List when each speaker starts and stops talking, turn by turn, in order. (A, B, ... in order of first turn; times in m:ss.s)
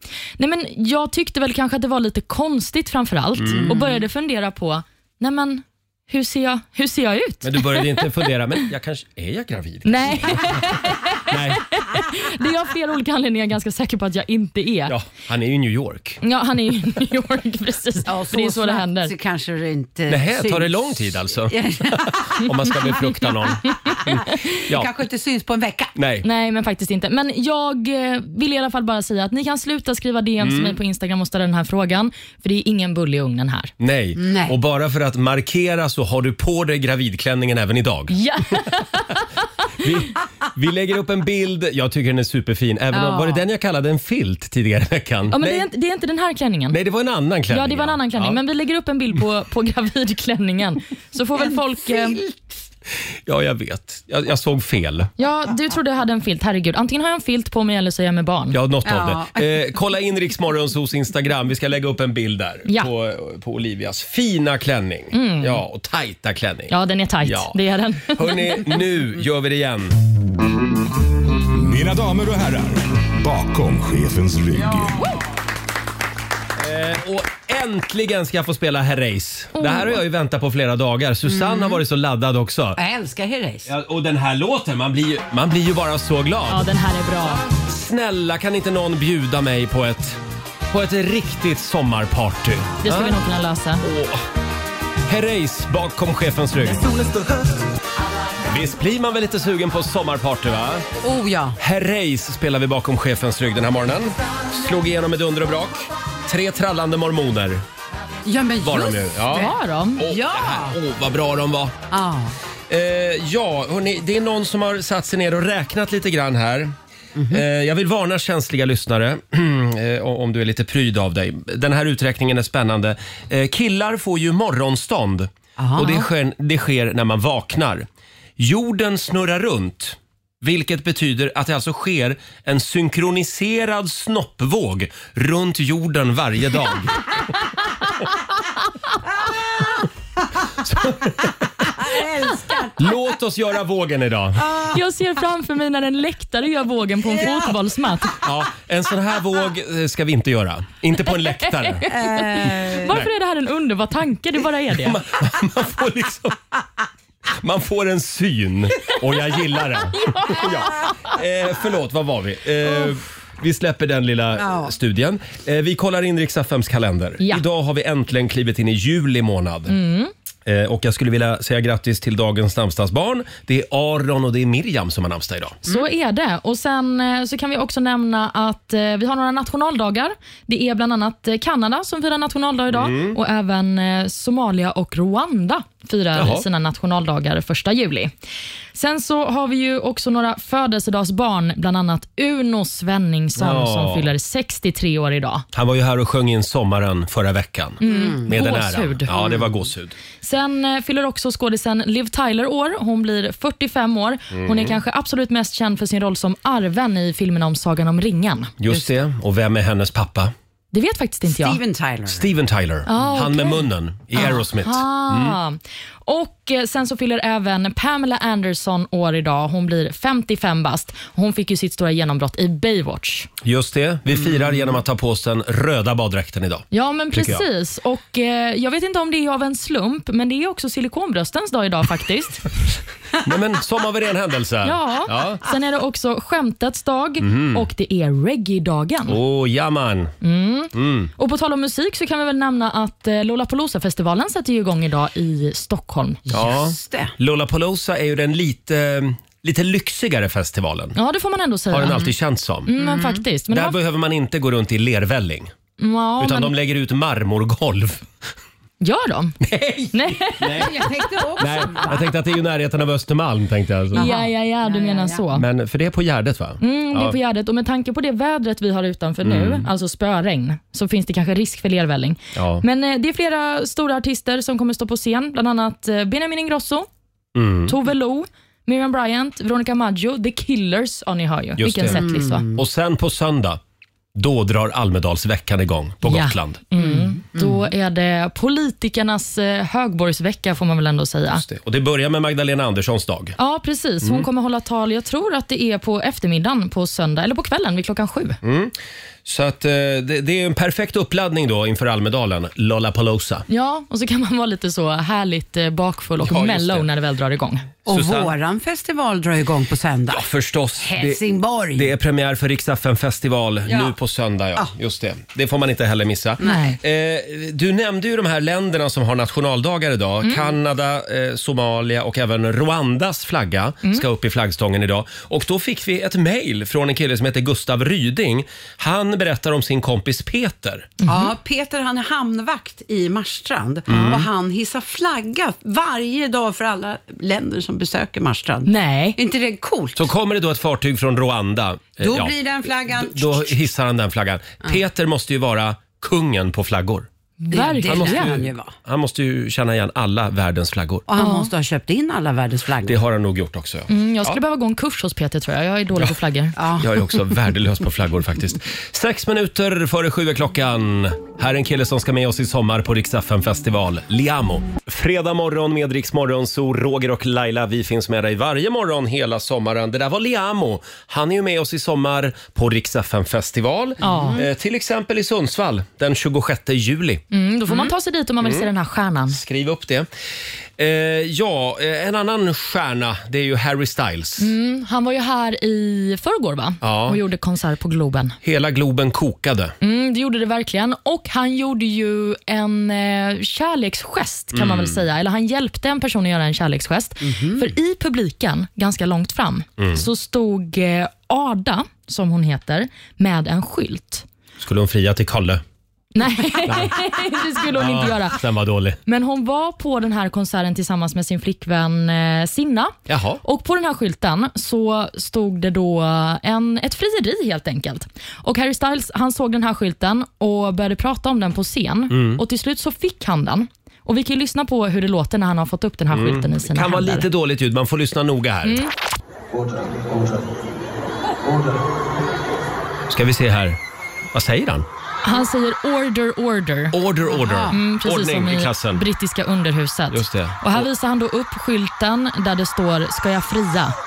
0:00.4-0:08.1 A
0:03.4-0:03.8 B
0:03.6-0:03.9 C
0:07.4-0:10.7 B
0:09.8-0:14.9 A
0:11.3-0:11.7 B
0:14.9-0:16.2 B
0:16.2-0:19.1 A
0:18.0-0:22.9 C
0:20.1-0:24.9 B
0:23.6-0:24.3 A
0:24.6-0:25.9 C
0:26.0-0:26.2 B
0:26.2-0:33.7 A
0:30.4-0:30.8 B
0:33.8-0:38.1 B
0:34.2-0:34.5 C
0:38.1-0:39.2 A
0:39.8-0:45.7 B
0:42.9-0:43.4 C
0:45.3-0:46.8 A
0:46.7-0:48.4 B
0:47.5-0:52.2 A
0:51.4-0:52.5 C
0:53.2-0:55.1 B
0:55.2-0:58.6 A
0:58.5-1:10.0 B
0:58.8-0:59.7 C
1:05.1-1:05.6 A
1:06.7-1:08.8 A
1:11.6-1:15.0 D
1:16.6-1:22.8 B
1:19.5-1:20.0 A
1:21.3-1:21.8 C
1:22.8-1:23.7 C
1:23.6-1:26.7 B
1:26.5-1:27.4 A
1:27.6-1:30.2 B
1:30.7-1:33.2 B
1:32.8-1:33.8 A
1:33.8-1:34.2 B
1:35.1-1:36.9 B
1:38.5-1:40.8 B
1:41.0-1:41.6 C
1:41.6-1:47.6 B
1:48.2-1:50.8 C
1:48.6-1:51.8 B
1:49.3-1:50.0 A
1:51.9-1:52.3 C
1:52.7-1:56.7 B
1:57.2-1:57.4 C
1:57.3-2:07.9 B
2:05.6-2:06.1 C
2:08.4-2:17.0 B
2:19.2-2:19.8 C
2:20.6-2:21.7 B
2:21.7-2:23.0 C
2:22.8-2:24.5 B
2:24.4-2:24.8 C
2:24.7-2:28.2 A
2:28.2-2:31.9 B
2:31.1-2:35.0 A
2:31.9-2:32.9 C
2:34.8-2:36.4 B
2:37.4-2:49.8 B
2:39.9-2:40.9 A
2:44.4-2:44.7 C
2:49.7-2:50.1 A
2:50.4-2:55.6 B
2:55.6-3:08.1 A
3:02.7-3:03.2 B
3:06.1-3:06.4 B
3:08.7-3:15.4 A
3:13.4-3:14.1 B
3:15.5-3:19.9 B
3:17.8-3:19.1 A
3:17.8-3:18.3 C
3:19.1-3:19.5 C
3:20.2-3:28.5 A
3:24.3-3:24.7 B
3:28.6-3:30.3 B
3:30.7-3:31.6 A
3:31.3-3:32.3 C
3:32.1-3:35.4 B
3:32.8-3:43.3 A
3:43.4-3:47.4 B
3:46.7-3:52.4 A
3:53.2-3:55.4 B
3:54.6-3:59.2 A
3:57.2-3:57.7 B
3:59.1-4:00.1 B
4:00.2-4:06.2 A
4:00.7-4:01.1 B
4:06.3-4:07.1 C
4:06.3-4:11.0 B
4:11.0-4:12.1 A
4:11.7-4:12.7 B
4:12.7-4:13.8 A
4:12.8-4:13.2 C
4:13.5-4:15.5 B
4:15.8-4:16.5 A
4:16.2-4:18.0 B
4:18.8-4:19.4 A
4:19.4-4:24.1 B
4:19.9-4:20.8 A
4:20.6-4:22.1 C
4:23.9-4:25.2 C
4:23.9-4:25.4 A
4:25.3-4:27.1 B
4:26.6-4:36.9 A
4:29.2-4:29.7 B
4:32.3-4:32.6 B
4:37.3-4:37.7 B
4:37.6-4:42.4 A
4:41.6-4:43.6 B
4:41.9-4:42.6 C
4:44.1-4:46.6 B
4:46.0-4:51.4 A
4:46.8-4:47.6 C
4:51.3-4:53.4 B
4:53.4-4:58.4 A
4:54.0-4:54.3 B
4:58.4-4:58.7 B
4:59.2-5:03.4 B
5:03.5-5:07.7 A
5:06.2-5:06.9 B
5:07.9-5:08.3 B
5:07.9-5:10.2 C
5:10.1-5:11.2 B
5:10.8-5:11.9 C
5:11.7-5:30.9 B
5:13.6-5:13.9 C
5:16.4-5:16.8 A
5:20.2-5:20.5 A
5:31.0-5:31.3 A
5:31.0-5:40.1 C
5:33.9-5:34.3 B
5:33.9-5:34.2 A
5:38.6-5:39.2 A
5:40.0-5:42.3 B
5:42.0-5:43.6 C
5:42.8-5:47.1 B
5:47.4-5:48.3 A
5:47.5-5:48.7 C
5:47.8-5:51.0 B
5:51.1-5:53.0 C
5:51.2-5:51.5 A
5:52.8-5:54.4 B
5:53.9-5:56.6 A
5:56.6-5:57.1 C
5:56.8-6:17.2 B
6:14.0-6:14.4 A
6:14.0-6:14.4 C
6:17.3-6:19.4 A
6:18.4-6:18.7 B
6:19.3-6:20.1 B
6:20.8-6:24.5 B
6:24.4-6:28.4 A
6:26.8-6:27.2 B
6:28.4-6:29.7 B
6:29.8-6:44.2 A
6:34.5-6:35.0 B
6:37.2-6:37.7 C
6:39.8-6:40.0 B
6:44.6-6:45.6 B
6:46.1-6:48.4 A
6:46.6-6:47.0 B
6:47.7-6:49.0 B
6:49.0-7:07.3 A
6:53.1-6:53.4 B
7:02.1-7:02.4 B
7:06.1-7:08.8 B
7:08.6-7:08.9 A
7:13.1-7:13.8 B
7:14.3-7:14.9 B
7:15.2-7:17.0 A
7:16.9-7:19.0 B
7:17.3-7:17.8 C
7:17.7-7:24.0 A
7:20.1-7:20.9 B